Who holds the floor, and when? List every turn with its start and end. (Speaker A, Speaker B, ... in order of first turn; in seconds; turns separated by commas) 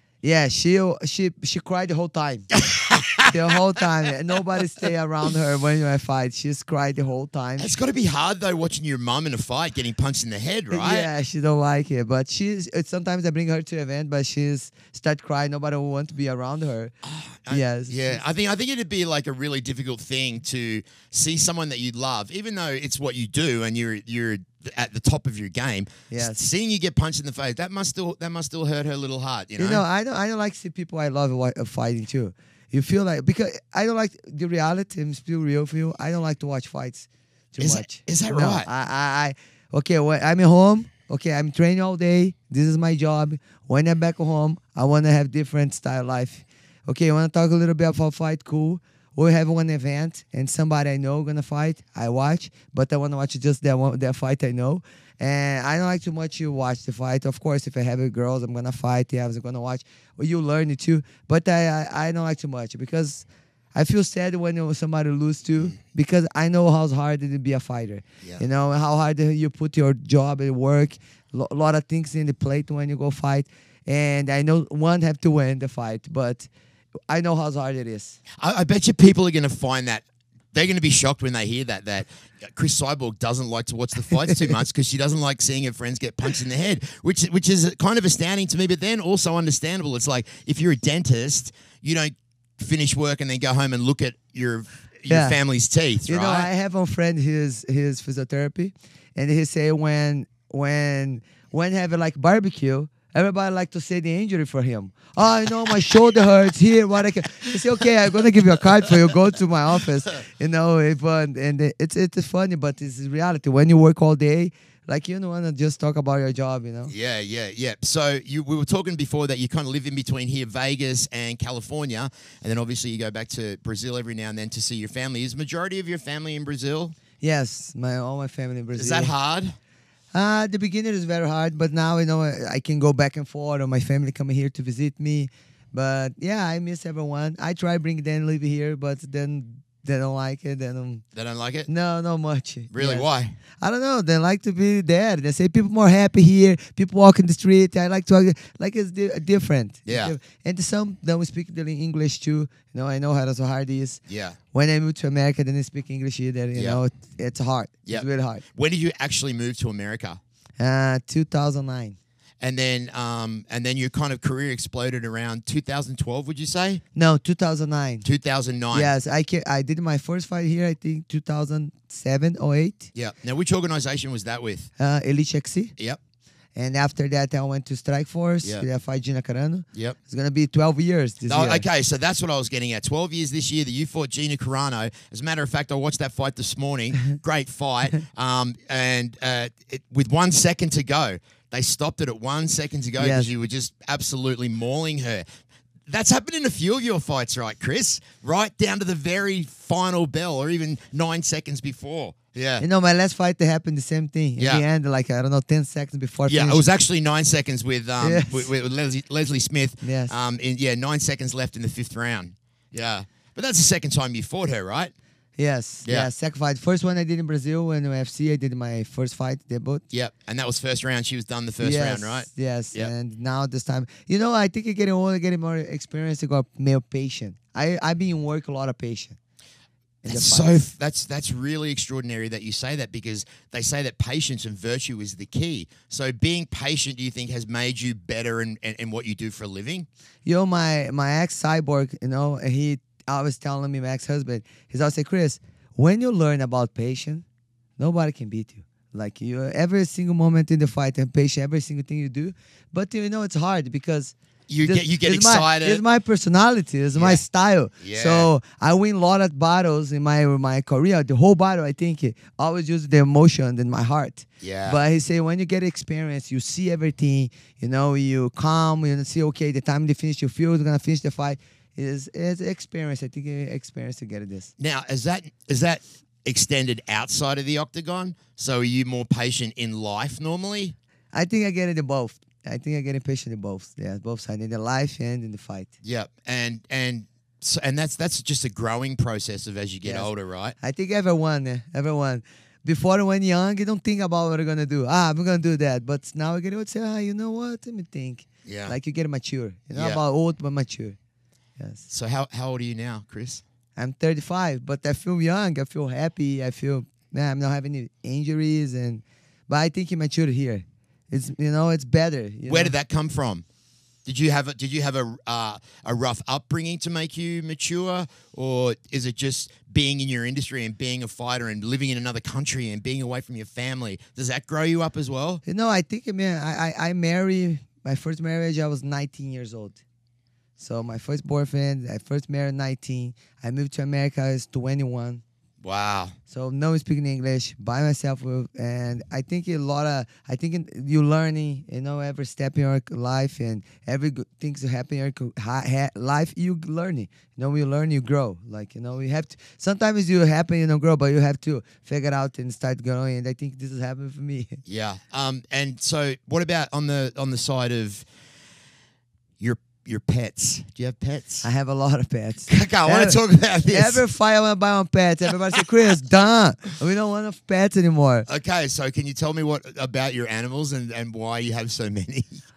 Speaker A: 0.2-2.5, Speaker B: 2.5-3.6, Speaker A: 3.2-7.7, Speaker B: 7.6-11.1, Speaker A: 10.7-16.9, Speaker B: 17.0-29.8, Speaker A: 17.5-18.2, Speaker A: 26.1-26.4, Speaker A: 29.6-76.5, Speaker B: 37.6-38.7, Speaker A: 77.1-78.2, Speaker B: 78.4-96.5, Speaker A: 84.2-84.5, Speaker A: 95.1-95.4, Speaker A: 96.1-116.9, Speaker B: 116.9-127.0, Speaker A: 127.2-129.1, Speaker B: 128.7-129.6, Speaker A: 130.1-141.0, Speaker B: 141.1-141.7, Speaker A: 141.7-143.1, Speaker B: 142.7-143.4, Speaker A: 143.6-154.0, Speaker B: 149.8-150.1, Speaker B: 154.1-154.4, Speaker A: 154.5-158.4, Speaker B: 156.5-156.8, Speaker B: 157.8-160.2, Speaker A: 160.6-161.9, Speaker B: 162.4-166.8, Speaker A: 166.9-168.0, Speaker B: 168.0-168.9, Speaker A: 168.7-172.9, Speaker B: 172.9-174.7, Speaker A: 174.8-175.7, Speaker A: 176.6-181.7, Speaker B: 181.3-195.2, Speaker A: 193.0-193.3, Speaker B: 195.9-202.6, Speaker A: 202.6-206.6, Speaker B: 204.4-204.6, Speaker B: 206.3-214.9, Speaker A: 208.0-208.5, Speaker A: 209.8-210.1, Speaker A: 215.4-219.8, Speaker B: 219.9-222.9, Speaker A: 221.6-229.2, Speaker A: 230.0-230.6, Speaker B: 230.1-239.9, Speaker A: 240.2-247.2, Speaker A: 247.8-274.5, Speaker B: 254.5-255.8, Speaker B: 256.9-257.2, Speaker B: 257.8-258.3, Speaker B: 264.4-264.8, Speaker B: 274.6-280.7, Speaker A: 281.1-285.7, Speaker B: 285.8-290.5, Speaker A: 290.6-301.0, Speaker B: 298.4-298.8, Speaker B: 299.7-300.0, Speaker A: 301.6-301.9, Speaker B: 301.9-303.4, Speaker A: 303.8-312.7, Speaker B: 312.5-313.4, Speaker B: 314.1-325.4, Speaker A: 325.4-329.8, Speaker A: 330.6-335.2, Speaker B: 335.6-336.1, Speaker A: 336.3-354.6, Speaker B: 354.6-358.1, Speaker B: 359.4-361.5, Speaker A: 361.4-368.3, Speaker B: 362.5-364.0, Speaker B: 368.3-372.4